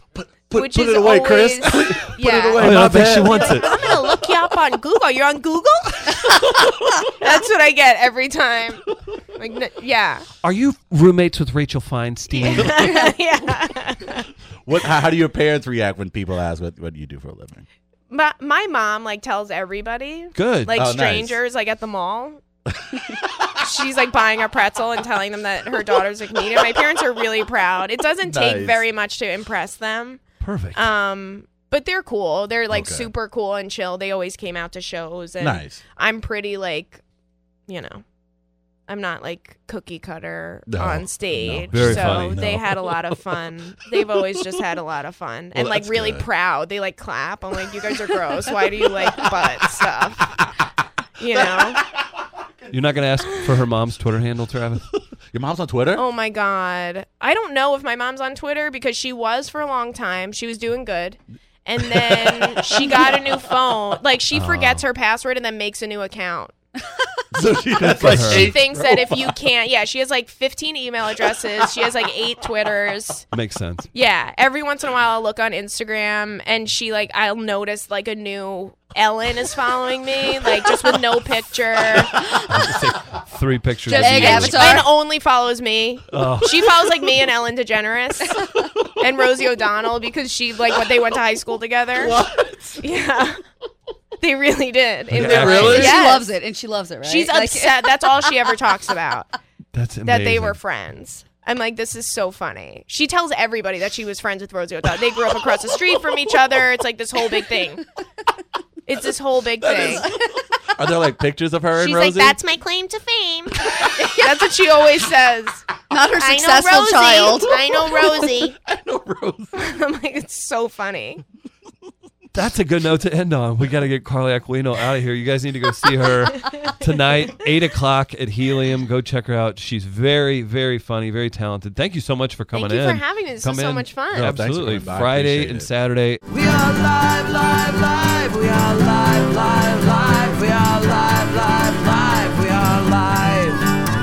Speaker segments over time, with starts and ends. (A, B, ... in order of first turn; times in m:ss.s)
0:00.1-0:04.2 A
0:00.5-0:10.3 B
0:02.6-0:03.8 C
0:06.1-0:07.1 A
0:10.4-0:12.9 C
0:12.3-0:14.3 B
0:14.7-0:17.7 A
0:18.1-0:22.4 B
0:20.4-0:20.7 C
0:20.7-0:21.4 A
0:22.9-0:23.2 A
0:23.6-0:30.2 B
0:28.2-0:28.8 A
0:30.4-0:30.9 C
0:30.7-0:37.0 B
0:32.7-0:33.1 A
0:35.4-0:35.8 A
0:37.7-0:38.0 B
0:38.9-0:50.4 B
0:40.7-0:43.2 A
0:41.7-0:42.5 C
0:43.9-0:44.2 A
0:45.6-0:46.3 A
0:48.9-0:49.8 A
0:51.2-0:51.8 B
0:51.3-0:52.7 A
0:52.7-0:54.9 C
0:55.3-0:56.0 A
0:56.0-1:06.6 B
1:01.8-1:03.4 A
1:04.3-1:04.8 C
1:07.3-1:09.4 A
1:07.8-1:08.6 C
1:08.0-1:13.3 B
1:13.3-1:13.9 C
1:13.9-1:22.2 B
1:22.5-1:24.9 C
1:23.9-1:32.2 B
1:23.9-1:24.9 D
1:26.1-1:26.6 C
1:32.0-1:32.8 A
1:32.8-1:33.4 B
1:34.2-1:36.3 B
1:35.1-1:36.0 A
1:35.1-1:36.0 C
1:35.4-1:38.5 D
1:37.0-1:39.4 B
1:39.7-1:40.6 C
1:40.0-1:47.8 B
1:48.9-1:50.1 B
1:49.6-1:52.4 A
1:51.8-1:55.6 B
1:53.9-1:54.5 D
1:55.9-1:57.8 D
1:56.2-1:58.6 B
1:58.6-1:59.6 A
1:59.6-2:01.2 B
2:02.3-2:16.2 C
2:06.3-2:06.7 B
2:12.5-2:14.3 B
2:14.2-2:15.7 A
2:16.3-2:23.7 E